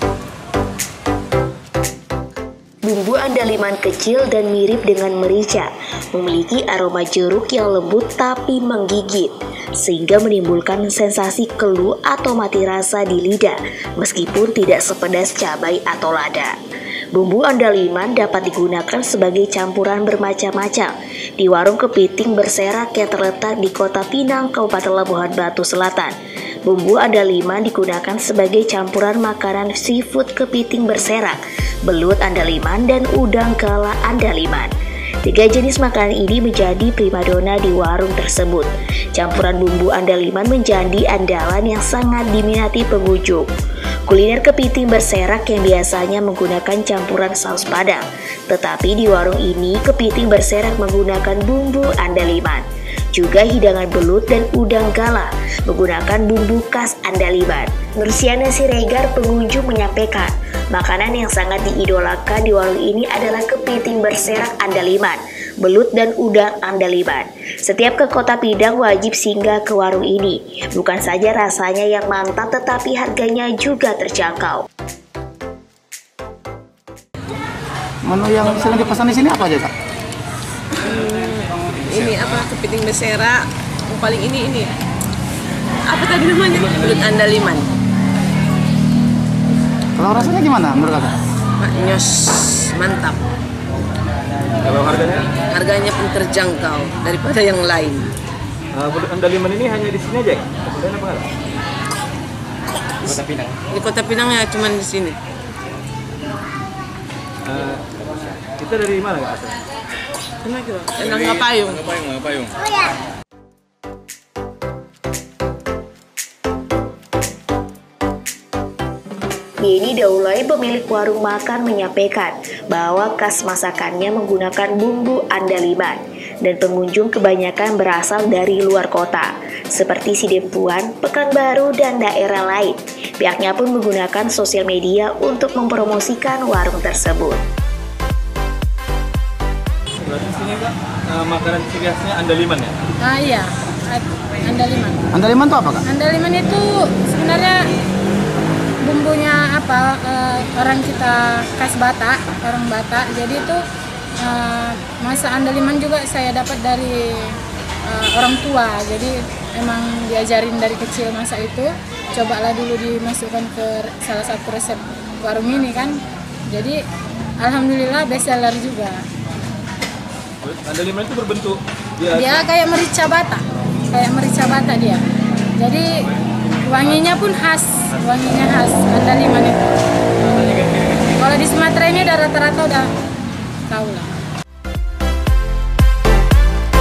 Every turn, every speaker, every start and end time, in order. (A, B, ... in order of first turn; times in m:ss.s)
0:02.8-0:16.6 A
0:17.1-0:34.7 A
0:35.2-0:43.5 A
0:44.1-1:14.6 A
1:18.0-1:19.7 B
1:20.8-1:24.8 C
1:25.9-1:27.7 C
1:30.0-1:31.2 B
1:31.6-1:33.2 C
1:34.6-1:35.3 D
1:35.4-1:38.1 C
1:38.7-1:41.3 D
1:43.0-1:45.2 C
1:47.4-1:47.8 D
1:48.6-1:49.6 D
1:50.4-1:52.5 C
1:59.6-2:17.4 A
2:20.0-2:22.8 D
2:23.0-2:25.0 E
2:25.1-2:25.8 B
2:25.8-2:27.7 E
2:28.8-2:33.6 E
2:34.2-2:46.8 E
2:47.4-2:49.1 E
2:50.4-2:52.4 D
2:52.1-2:55.0 E
2:55.6-2:56.0 E
2:56.6-2:59.8 E
3:01.1-3:02.9 E
3:03.7-3:04.1 E